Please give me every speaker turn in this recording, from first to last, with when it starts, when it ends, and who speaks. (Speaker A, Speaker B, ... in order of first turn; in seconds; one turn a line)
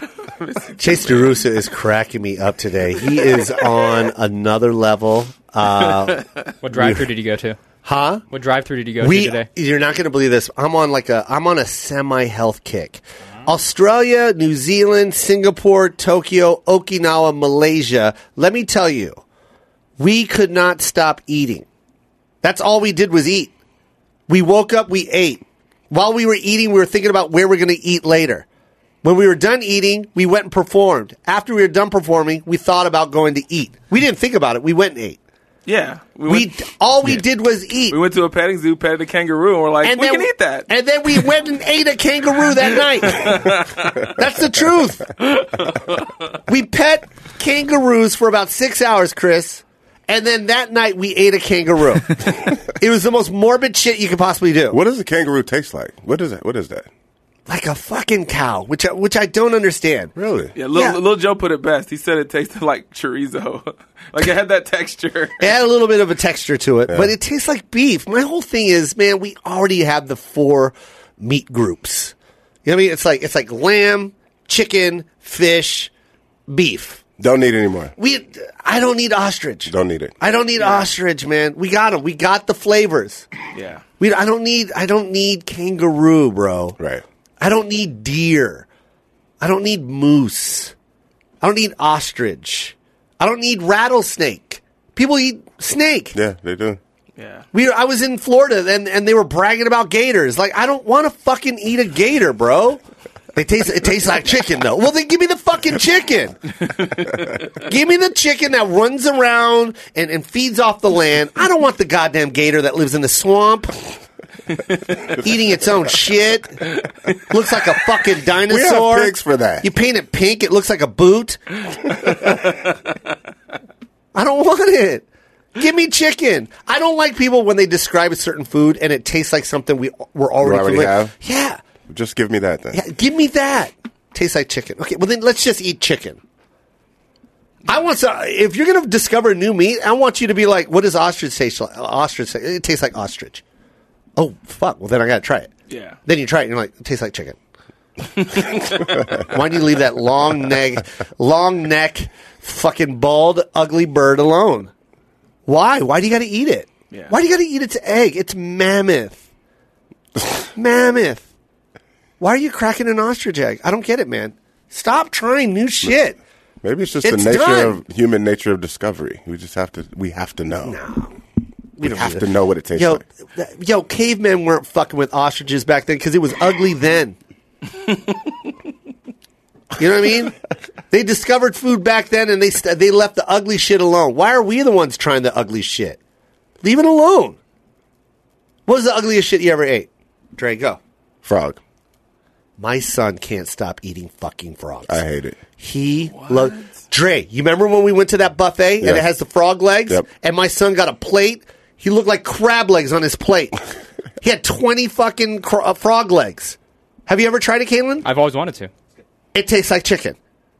Speaker A: 0.4-1.4
Speaker B: 0.8-7.1
Speaker C: 6.6-7.6
Speaker B: 7.8-8.2
Speaker C: 8.3-9.5
Speaker B: 9.0-19.2
Speaker B: 20.0-21.6
Speaker B: 22.4-23.5
Speaker B: 24.3-28.4
Speaker B: 29.0-35.2
Speaker A: 35.6-37.2
Speaker B: 36.3-38.0
Speaker A: 37.9-41.2
Speaker B: 39.8-43.5
Speaker A: 43.0-44.1
Speaker B: 44.0-45.0
Speaker A: 45.2-46.1
Speaker B: 46.5-54.8
Speaker D: 54.7-56.9
Speaker B: 57.5-60.1
Speaker D: 60.1-60.5
Speaker A: 60.5-65.5
Speaker B: 60.7-61.0
Speaker B: 65.4-72.1
Speaker B: 72.6-75.9
Speaker B: 76.5-77.0
Speaker D: 77.2-77.9
Speaker B: 78.0-83.2
Speaker D: 79.7-80.1
Speaker A: 80.6-80.9
Speaker A: 83.5-83.8
Speaker B: 84.0-86.8
Speaker D: 86.8-87.0
Speaker B: 87.4-88.7
Speaker B: 89.4-90.7
Speaker B: 91.4-96.2
Speaker D: 96.1-96.8
Speaker A: 97.2-97.4
Speaker B: 97.5-102.8
Speaker B: 103.3-106.4
Speaker B: 107.5-113.8
Speaker B: 115.2-121.4
Speaker D: 118.5-119.7
Speaker B: 124.1-125.0
Speaker B: 125.5-131.6
Speaker D: 130.4-131.1
Speaker D: 131.9-132.8
Speaker B: 132.7-136.2
Speaker B: 137.7-143.4
Speaker B: 144.2-145.5
Speaker A: 145.7-146.0
Speaker B: 146.1-147.4
Speaker A: 148.3-148.8
Speaker B: 149.1-154.7
Speaker B: 155.4-159.2
Speaker B: 160.5-161.2
Speaker B: 162.2-166.2
Speaker D: 166.6-170.8
Speaker B: 167.0-167.8
Speaker B: 170.6-171.1
Speaker B: 171.8-177.2
Speaker D: 171.8-173.0
Speaker B: 179.8-180.3
Speaker B: 180.9-186.0
Speaker B: 186.6-187.4
Speaker B: 188.7-190.8
Speaker D: 191.2-191.6
Speaker B: 192.6-195.0
Speaker D: 194.9-195.4
Speaker B: 195.6-203.6
Speaker A: 196.1-196.7
Speaker D: 198.8-199.1
Speaker B: 204.2-208.0
Speaker C: 208.0-208.7
Speaker B: 209.3-210.2